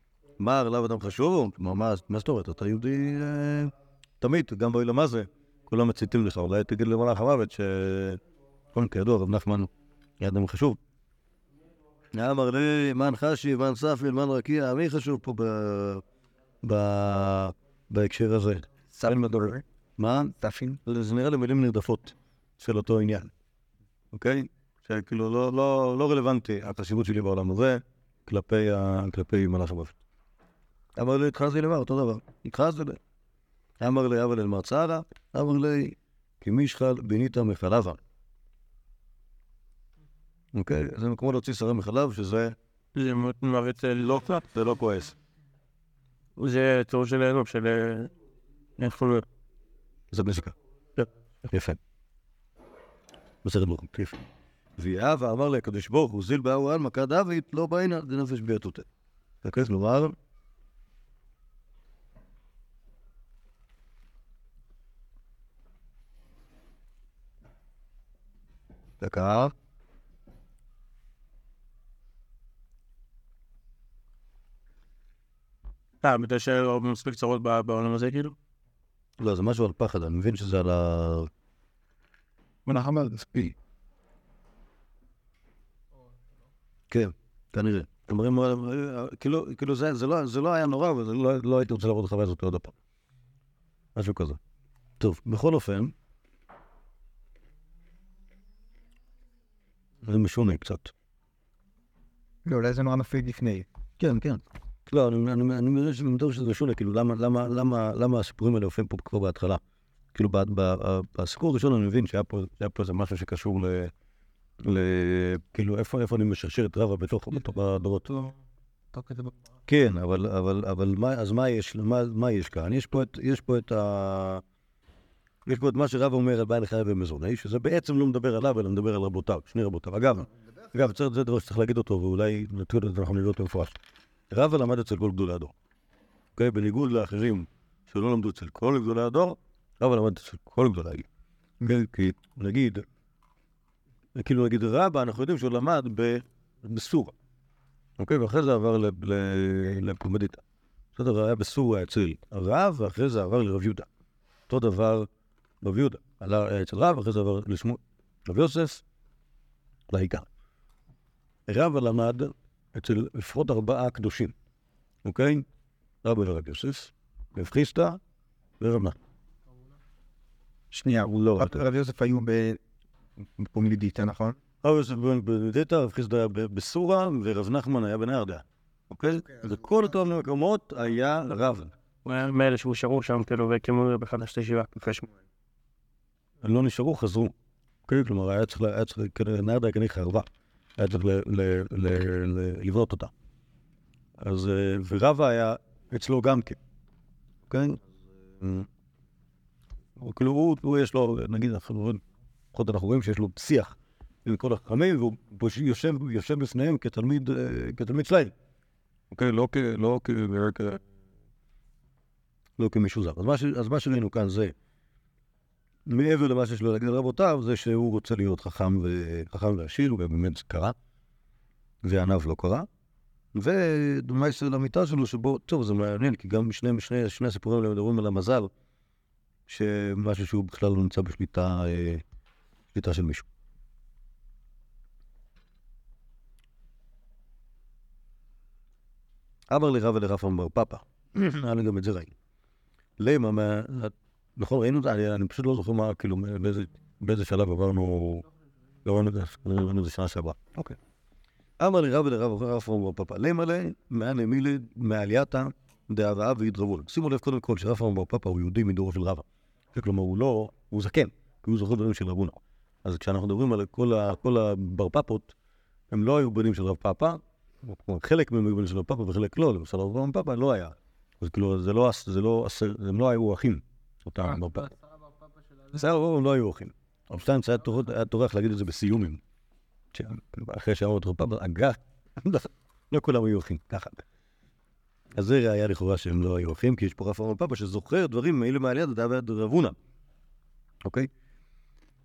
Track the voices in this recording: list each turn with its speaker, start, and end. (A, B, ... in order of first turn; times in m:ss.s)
0:00.4-0:08.2 A
0:08.7-0:10.8 A
0:12.1-0:16.0 A
0:16.6-0:19.2 A
0:18.9-0:19.6 B
0:20.0-0:23.3 A
0:20.4-0:20.8 B
0:24.1-0:30.0 A
0:31.0-0:33.0 A
0:33.8-0:38.0 A
0:40.5-0:42.6 A
0:43.0-0:44.2 C
0:44.0-0:45.2 A
0:46.4-0:48.1 C
0:48.8-0:49.2 C
0:50.1-0:50.5 A
0:51.5-0:51.8 A
0:53.4-0:54.2 A
0:54.8-0:58.9 A
0:59.4-1:00.2 A
1:09.0-1:09.5 A
1:16.0-1:18.4 C
1:19.2-1:21.3 A
1:22.7-1:23.6 B
1:26.9-1:32.7 A
1:34.0-1:34.4 A
1:35.0-1:35.9 A
1:40.0-1:40.9 A
1:42.4-1:43.7 B
1:44.0-1:49.6 A
1:50.1-1:53.9 A
1:54.6-1:58.2 A
1:59.0-1:59.3 B
1:59.7-2:04.4 A
2:05.5-2:13.8 A
2:14.3-2:15.5 A
2:16.4-2:21.1 A
2:21.6-2:22.9 A
2:24.2-2:27.1 A
2:28.0-2:30.4 A
2:31.0-2:33.9 A
2:34.5-2:35.1 A
2:35.6-2:38.8 A
2:39.9-2:40.3 A
2:41.5-2:44.4 A
2:45.0-2:45.4 A
2:46.0-2:48.0 A
2:48.6-2:49.0 A
2:50.7-2:52.6 B
2:50.8-2:51.6 A
2:53.2-2:54.4 B
2:54.6-3:01.7 A
3:02.0-3:05.1 C
3:06.4-3:07.3 A
3:07.9-3:13.1 A
3:14.2-3:16.6 A
3:17.5-3:17.8 A
3:18.4-3:18.7 A
3:20.0-3:22.0 A
3:22.5-3:28.3 A
3:29.1-3:30.8 A
3:32.6-3:34.5 A
3:35.9-3:40.8 A
3:41.8-3:42.7 A
3:43.4-3:48.5 A
3:49.5-3:52.0 A
3:52.7-3:53.3 A
3:59.5-4:02.1 A
4:03.0-4:08.3 A
4:08.8-4:10.8 A
4:11.6-4:25.4 A
4:25.9-4:34.7 A
4:35.7-4:39.2 A
4:39.9-4:44.0 A
4:45.2-4:49.8 A
4:50.8-4:51.1 A